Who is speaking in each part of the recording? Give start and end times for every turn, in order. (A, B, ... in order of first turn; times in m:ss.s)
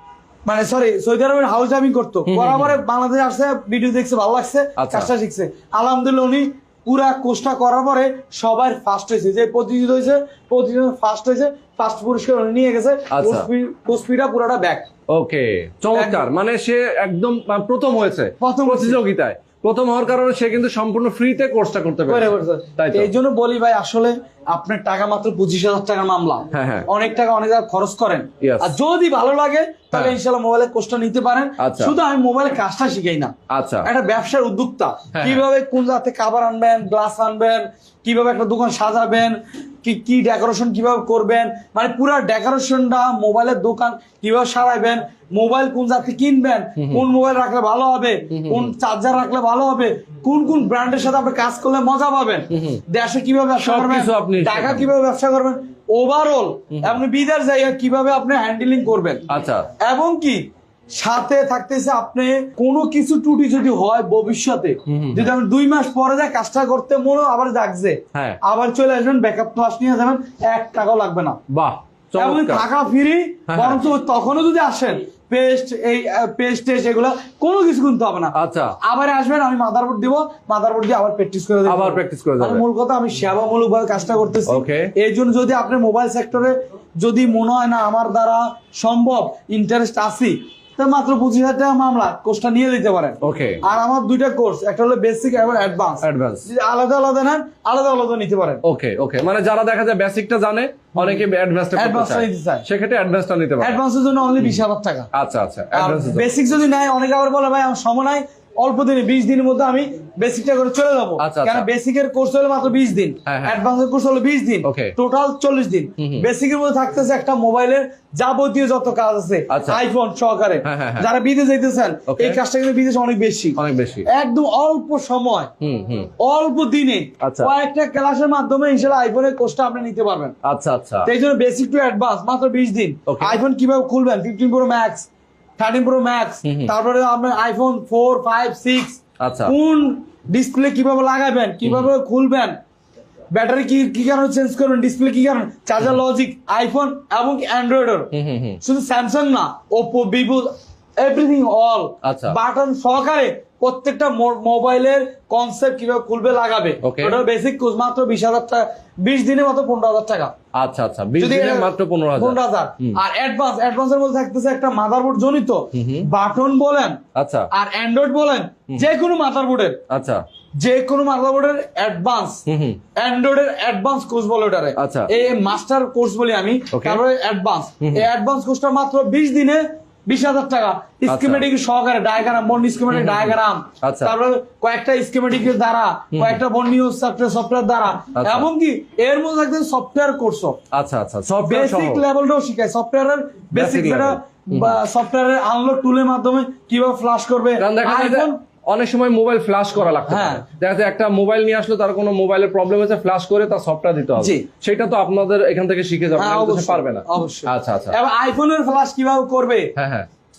0:00.4-0:14.9 A
0:02.3-0:02.8 B
0:04.8-0:05.1 B
0:13.1-0:13.4 B
0:15.1-0:23.1 B
0:15.9-0:16.3 A
0:18.4-0:19.0 A
0:22.1-0:33.3 A
0:26.5-0:26.9 B
0:28.4-0:28.7 B
0:31.6-0:31.9 B
0:33.5-0:33.9 B
0:33.8-0:59.2 A
0:35.1-0:35.4 B
0:46.8-0:47.0 B
0:48.3-0:48.7 B
0:52.5-0:52.8 B
0:53.6-0:54.9 B
0:59.3-0:59.7 B
0:59.8-1:00.4 A
1:00.9-1:11.4 A
1:04.9-1:05.3 B
1:08.1-1:08.4 B
1:11.5-1:12.6 B
1:12.2-1:38.6 A
1:13.5-1:13.8 B
1:18.3-1:18.7 B
1:21.6-1:22.6 B
1:24.5-1:24.9 B
1:33.2-1:33.6 B
1:36.0-1:36.4 B
1:38.6-1:43.8 B
1:41.0-1:42.6 A
1:43.6-1:45.1 A
1:45.1-1:46.3 B
1:45.7-2:05.5 A
1:51.2-1:51.7 B
1:53.2-1:53.6 B
1:54.6-1:54.9 B
1:56.0-1:56.2 B
1:59.5-1:59.8 B
2:00.6-2:01.1 B
2:02.1-2:02.4 B
2:03.6-2:04.1 B
2:05.6-2:06.1 B
2:06.2-2:10.3 A
2:07.2-2:07.5 B
2:10.4-2:11.1 B
2:11.0-2:22.6 A
2:13.1-2:13.4 B
2:16.4-2:16.7 B
2:19.2-2:19.5 B
2:21.6-2:21.9 B
2:23.3-2:28.1 A
2:28.1-2:28.6 B
2:28.6-2:40.3 A
2:32.0-2:32.4 B
2:36.8-2:37.2 B
2:40.5-2:43.0 B
2:41.2-2:47.0 A
2:45.7-2:46.0 B
2:47.2-2:47.5 B
2:47.5-2:49.8 A
2:49.9-2:50.2 B
2:50.6-2:52.4 A
2:52.5-2:52.8 B
2:53.0-3:10.6 A
2:54.8-2:55.1 B
2:56.7-2:57.0 B
3:01.1-3:01.4 B
3:02.9-3:04.1 B
3:06.1-3:06.4 B
3:08.2-3:08.5 B
3:10.7-3:12.0 B
3:11.4-3:18.4 A
3:13.5-3:14.7 B
3:17.6-3:28.0 B
3:20.1-3:20.4 A
3:24.2-3:24.4 A
3:26.2-3:29.7 A
3:29.8-3:30.1 B